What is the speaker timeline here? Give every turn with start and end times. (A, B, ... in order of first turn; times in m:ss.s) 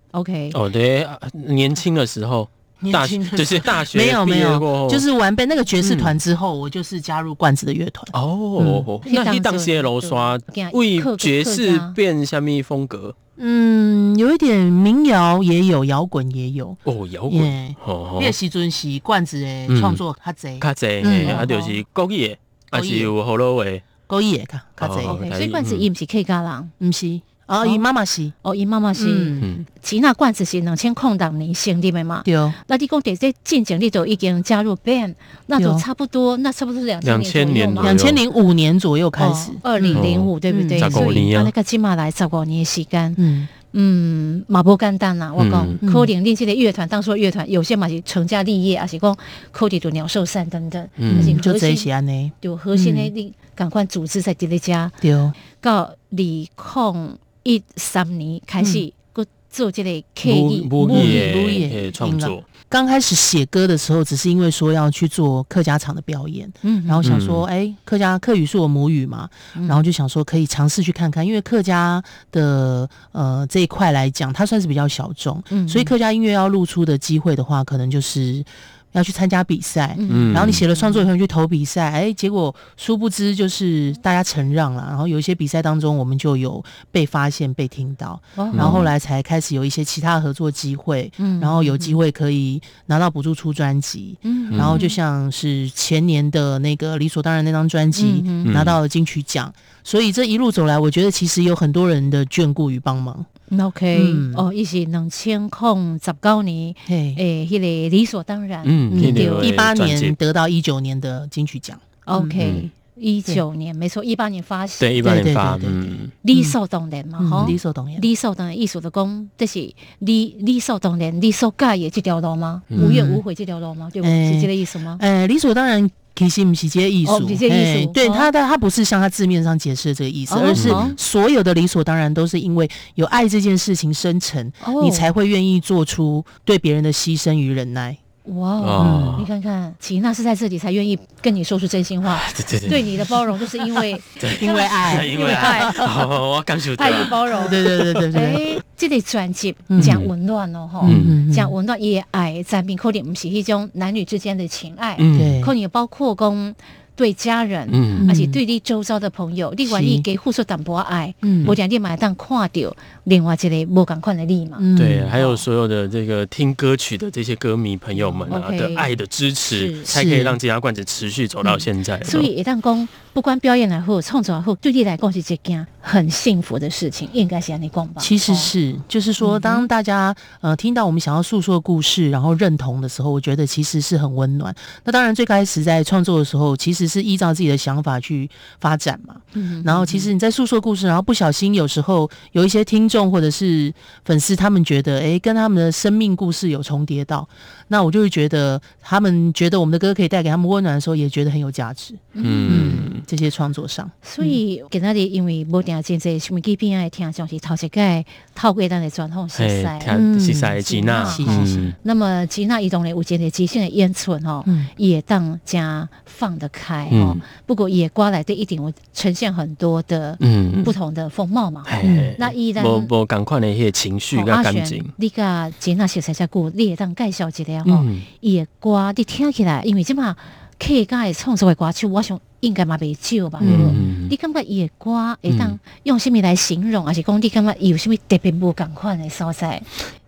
0:00.1-0:00.6 A
0:00.5-0:05.0 B
0:02.8-0:08.9 C
0:05.8-0:06.2 B
0:08.1-0:13.2 B
0:09.0-0:12.0 A
0:13.4-0:21.5 C
0:16.8-0:18.4 B
0:19.7-0:20.0 B
0:20.6-0:23.8 B
0:21.2-0:21.8 A
0:22.7-0:23.1 C
0:24.1-0:25.2 C
0:24.8-0:25.9 B
0:25.1-0:26.7 A
0:26.8-0:28.3 C
0:28.4-0:38.0 A
0:29.0-0:29.5 C
0:29.4-0:29.7 B
0:32.2-0:32.6 C
0:35.6-0:35.8 C
0:37.0-0:38.2 B
0:37.8-0:41.2 C
0:39.2-0:51.9 A
0:39.9-0:41.5 B
0:43.2-0:43.5 C
0:45.4-0:45.8 B
0:45.8-0:46.1 C
0:51.0-0:51.4 B
0:51.1-0:53.1 C
0:52.4-1:01.7 A
0:55.0-0:55.4 C
0:58.6-0:58.8 C
1:00.2-1:02.4 B
1:00.8-1:43.3 C
1:06.6-1:07.2 A
1:07.0-1:07.4 B
1:09.6-1:09.8 A
1:15.5-1:15.9 A
1:20.0-1:21.1 A
1:20.1-1:20.6 B
1:28.4-1:28.8 A
1:28.5-1:28.9 B
1:31.2-1:32.0 A
1:34.2-1:35.0 A
1:34.5-1:34.8 B
1:38.0-1:38.6 A
1:38.4-1:38.8 B
1:43.5-1:49.5 A
1:43.9-1:44.4 C
1:46.9-1:47.2 C
1:48.6-1:50.2 B
1:48.9-1:52.6 C
1:52.1-1:54.9 A
1:52.4-1:52.7 B
1:54.8-1:56.1 B
1:55.0-1:56.6 C
1:56.2-2:05.0 A
1:57.2-1:58.1 C
2:02.7-2:03.0 B
2:02.8-2:03.2 C
2:04.0-2:18.0 C
2:07.0-2:08.3 A
2:10.3-2:11.0 A
2:10.5-2:11.0 B
2:14.6-2:15.1 A
2:18.2-2:25.8 A
2:18.6-2:19.3 B
2:18.8-2:19.2 C
2:22.1-2:23.1 B
2:24.2-2:28.1 B
2:24.2-2:26.0 C
2:26.8-2:44.7 A
2:27.3-2:28.4 C
2:29.7-2:30.0 C
2:29.8-2:30.1 B
2:30.8-2:31.6 C
2:30.8-2:31.2 B
2:35.0-2:35.4 B
2:35.1-2:35.5 C
2:37.7-2:38.1 B
2:38.0-2:38.4 C
2:39.6-2:40.1 C
2:41.2-2:41.6 C
2:44.6-2:45.3 C
2:44.8-2:52.3 B
2:48.0-2:48.4 C
2:48.3-2:48.9 A
2:49.5-2:49.9 A
2:49.9-2:50.4 C
2:52.0-2:58.5 A
2:58.0-3:24.4 C
2:59.2-2:59.7 A
3:09.4-3:10.1 A
3:22.2-3:22.9 A
3:22.2-3:23.0 B
3:24.0-3:30.0 A
3:29.4-3:31.8 B
3:29.9-3:31.8 C
3:30.6-3:42.9 A
3:34.4-3:34.7 C
3:36.9-3:37.2 B
3:40.2-3:40.8 B
3:41.7-3:44.9 B
3:41.8-3:42.2 C
3:44.1-3:59.7 A
3:47.6-3:48.1 B
3:53.4-3:53.8 C
3:53.4-3:54.1 B
3:55.3-3:55.6 B